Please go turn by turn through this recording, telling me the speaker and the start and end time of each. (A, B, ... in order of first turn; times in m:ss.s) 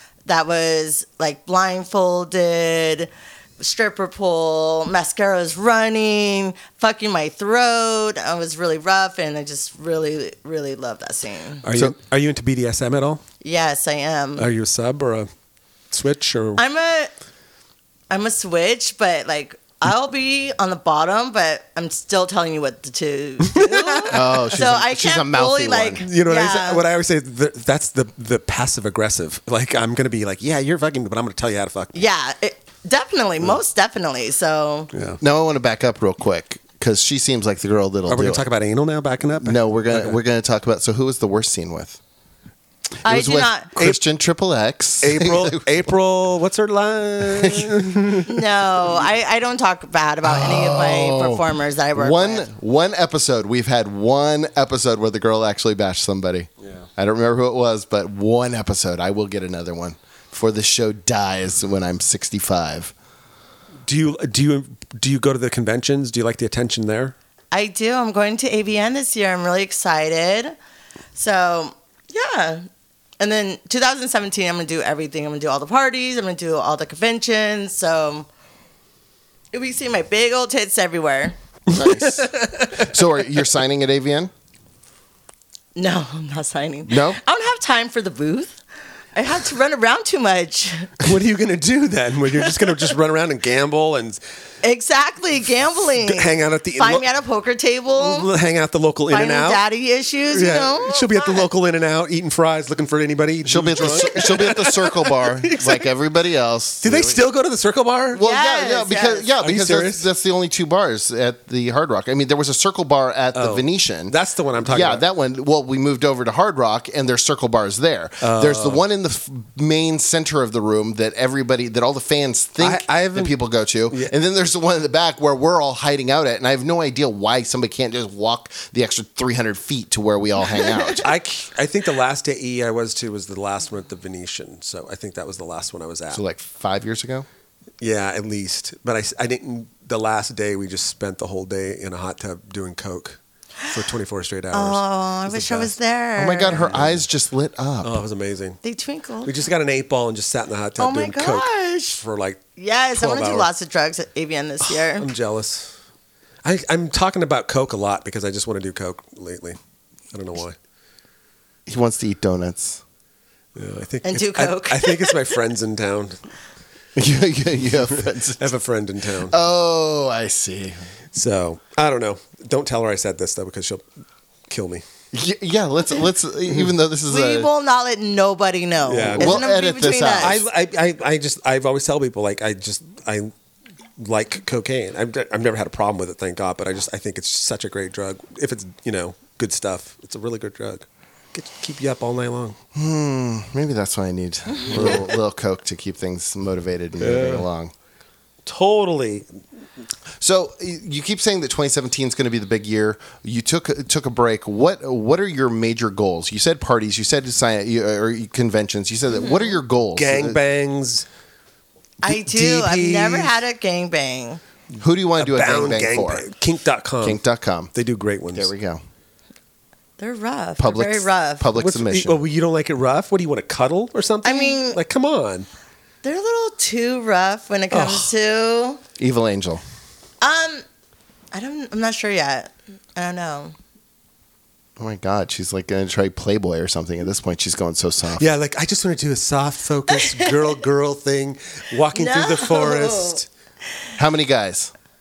0:00.2-0:11.6 A
0:11.6-0:13.2 B
0:13.4-0:14.4 A
0:14.4-0:15.3 B
0:15.9-0:16.6 B
0:16.6-0:17.1 A
0:18.1-0:26.8 A
0:23.5-0:24.3 B
0:24.1-0:26.0 C
0:26.0-0:32.0 B
0:31.9-0:34.9 A
0:34.9-0:35.2 B
0:35.2-0:38.5 C
0:38.1-0:40.2 B
0:39.4-0:42.0 C
0:43.0-0:43.7 A
0:43.0-0:45.6 C
0:45.0-0:48.4 B
0:47.3-0:47.8 C
0:48.2-0:52.5 A
0:50.2-0:51.4 C
0:51.9-1:02.9 C
1:03.8-1:07.1 B
1:07.5-1:10.6 A
1:11.1-1:12.6 A
1:13.2-1:18.3 A
1:19.5-1:21.4 A
1:21.7-1:23.0 B
1:21.7-1:24.3 C
1:25.8-1:28.6 A
1:26.9-1:27.2 C
1:29.1-1:31.0 A
1:31.0-1:34.2 B
1:34.6-1:38.3 A
1:36.0-1:37.0 B
1:38.0-1:39.6 B
1:39.1-1:41.4 A
1:40.3-1:45.8 B
1:43.4-1:47.2 C
1:46.8-1:48.2 B
1:48.2-1:49.3 A
1:48.2-2:11.1 C
1:49.4-1:50.1 B
1:53.3-1:55.0 B
1:58.2-1:58.8 B
2:02.6-2:03.4 B
2:03.9-2:04.1 B
2:11.0-2:16.2 B
2:16.1-2:17.3 C
2:17.8-2:25.7 B
2:24.5-2:26.7 A
2:26.2-2:27.9 C
2:26.7-2:27.0 B
2:27.8-2:28.6 B
2:28.6-2:29.3 A
2:29.2-2:33.5 B
2:30.8-2:32.0 A
2:32.6-2:35.1 A
2:34.7-2:35.7 B
2:36.4-2:39.6 B
2:40.1-2:40.6 B
2:41.7-2:42.8 C
2:43.5-2:46.2 B
2:44.0-2:45.4 A
2:47.0-2:48.5 C
2:48.4-2:49.4 B
2:49.3-2:50.8 C
2:51.1-2:53.8 B
2:54.5-2:54.8 B
2:55.1-2:57.5 C
2:57.1-3:00.4 A
2:58.9-2:59.4 B
2:59.1-3:00.4 C
3:00.2-3:03.3 B
3:04.0-3:12.6 B
3:12.7-3:17.7 C
3:14.7-3:15.0 B
3:17.0-3:17.4 B
3:18.4-3:19.3 B
3:20.2-3:30.4 C
3:29.1-3:29.5 A
3:29.9-3:31.0 B
3:32.0-3:34.4 A
3:32.0-3:33.3 B
3:34.8-3:36.3 C
3:35.1-3:37.2 B
3:37.0-3:37.7 C
3:37.7-3:38.5 B
3:38.3-3:38.8 C
3:40.0-3:41.5 A
3:40.6-3:42.2 C
3:41.5-3:45.5 B
3:44.2-3:44.8 A
3:46.0-3:48.8 A
3:47.7-3:48.1 B
3:49.0-3:49.6 C
3:50.2-3:50.6 A
3:51.3-3:53.6 A
3:54.8-3:58.2 C
3:58.2-4:03.3 B
4:00.0-4:00.4 A
4:01.9-4:03.2 A
4:04.0-4:04.7 C